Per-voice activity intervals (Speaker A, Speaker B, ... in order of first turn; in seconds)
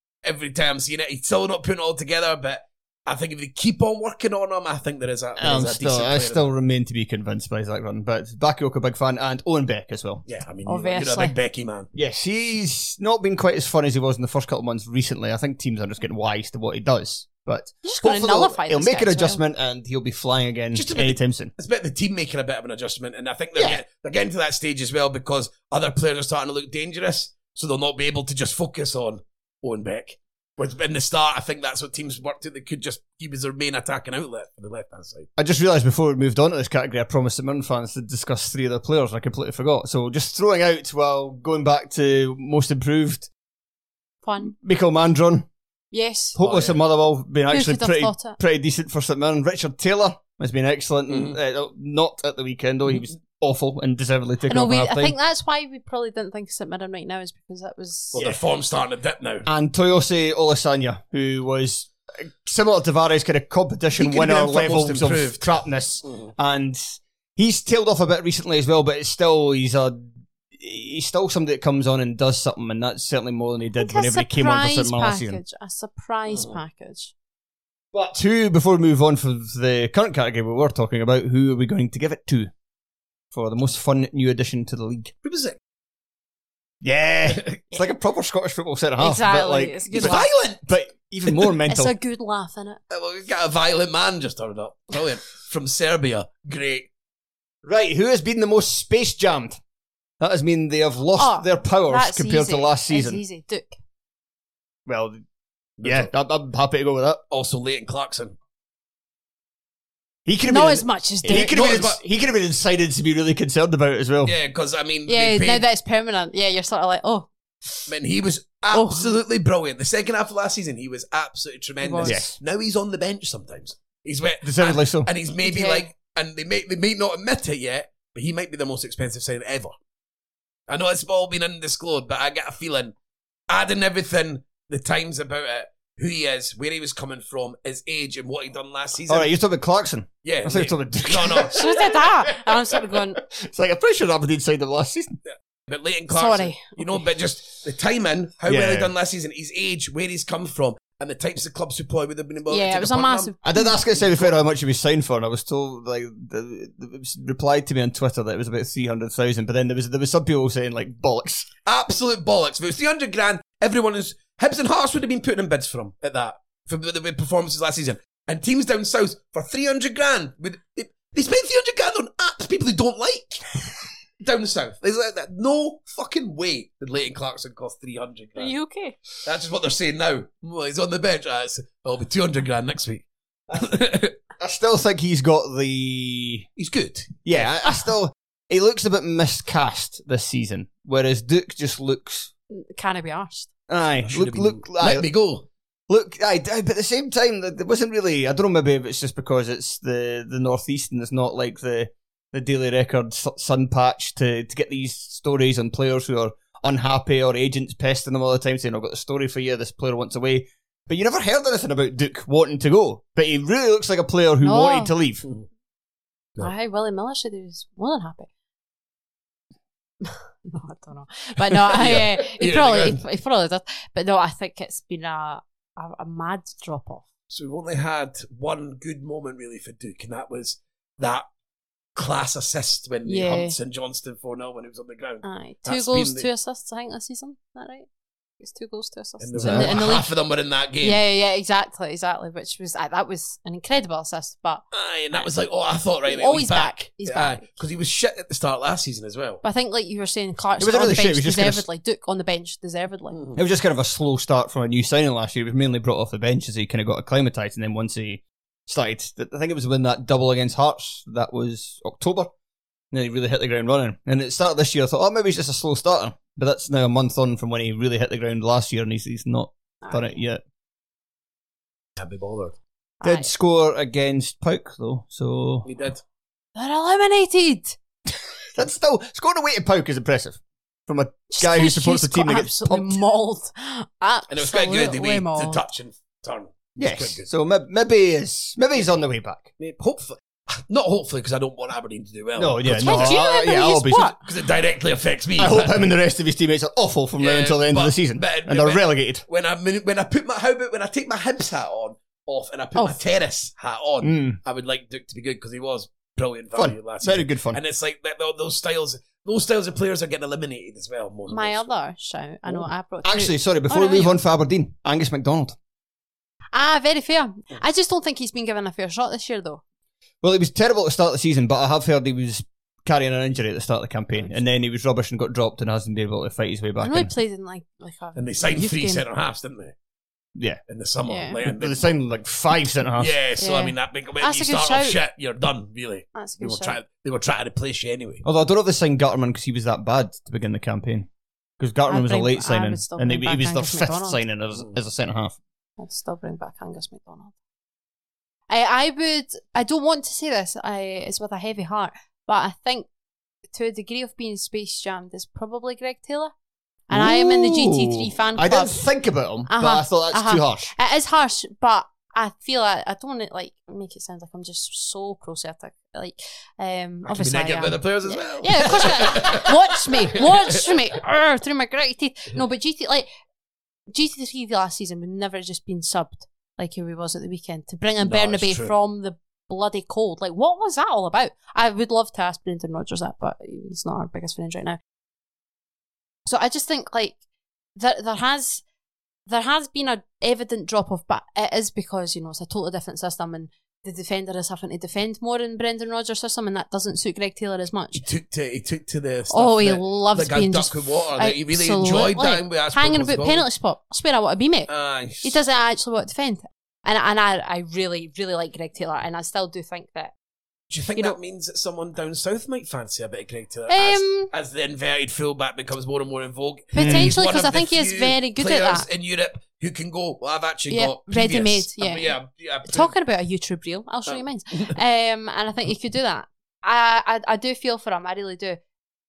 Speaker A: 0.2-6.5, 10.2-11.9, 20.7-35.3, 46.4-46.8, 51.1-51.4, 58.1-59.5, 64.0-66.3, 85.2-85.6, 89.9-90.6, 91.2-91.5, 92.9-96.9, 105.8-106.1, 107.3-108.3, 111.3-112.0, 114.2-115.6, 117.9-129.7, 130.7-132.9, 133.5-139.3, 140.2-141.9, 145.7-153.3, 161.6-173.5, 174.2-178.5, 179.2-184.1, 186.6-187.4, 194.0-195.5, 221.5-223.0, 227.3-231.2, 231.9-236.3, 239.2-241.0, 244.7-249.4, 253.1-253.4, 272.0-272.6, 275.6-276.0, 284.3-287.3, 289.6-293.2, 294.2-295.9, 297.2-311.6, 328.1-329.7, 330.7-331.9, 333.0-338.2, 367.0-370.8, 378.0-378.7, 397.9-403.4, 404.7-405.4, 410.7-422.9, 424.1-424.7
Speaker B: 5.4-10.2, 11.9-21.5, 35.4-43.3, 44.4-45.5, 46.4-55.2, 59.5-75.4, 77.9-82.5, 83.3-85.1, 86.8-91.9, 97.6-99.6, 100.2-103.2, 104.8-105.2, 105.8-107.2, 110.2-114.3, 122.0-122.3, 124.4-125.1, 139.1-141.6, 143.2-145.2, 148.5-148.9, 153.4-161.5, 184.4-186.5, 187.2-192.3, 193.7-195.0, 195.9-215.2, 239.4-239.7, 250.6-251.6, 253.3-262.3, 262.9-270.4, 273.0-275.7, 278.5-283.0, 286.8-289.5, 292.4-294.1, 295.4-299.2, 304.0-304.4, 306.5-307.6, 313.0-315.6, 320.2-327.1, 331.4-333.1, 338.2-345.4, 356.9-360.7, 416.8-417.1
Speaker C: 10.7-11.3, 17.8-19.4, 44.2-44.5, 45.9-46.4, 47.5-48.4, 54.5-58.2, 73.8-77.1, 89.0-90.3, 91.7-92.8, 101.2-103.8, 110.4-111.6, 115.1-117.9, 118.7-119.1, 121.8-122.2, 125.4-125.9, 141.5-143.2, 146.1-146.8, 152.5-153.8, 178.4-179.0, 192.5-193.5, 214.4-214.9, 216.4-218.3, 220.0-227.0, 233.0-233.6, 235.2-237.9, 238.4-240.1, 240.8-245.2, 246.1-247.4, 249.4-253.2, 269.8-270.2, 273.0-273.3, 276.5-277.8, 281.3-285.6, 292.8-294.2, 311.3-314.2, 316.5-319.6, 326.8-329.0, 331.1-331.4, 333.4-335.0, 336.1-336.8, 341.9-344.2, 345.8-347.3, 348.5-352.9, 353.5-356.3, 356.9-358.8, 359.5-373.1, 373.9-384.8, 386.2-387.2, 387.8-388.6, 389.3-398.0, 399.3-404.7, 405.2-410.1, 413.7-414.3, 416.7-418.9, 420.7-422.1, 422.7-428.6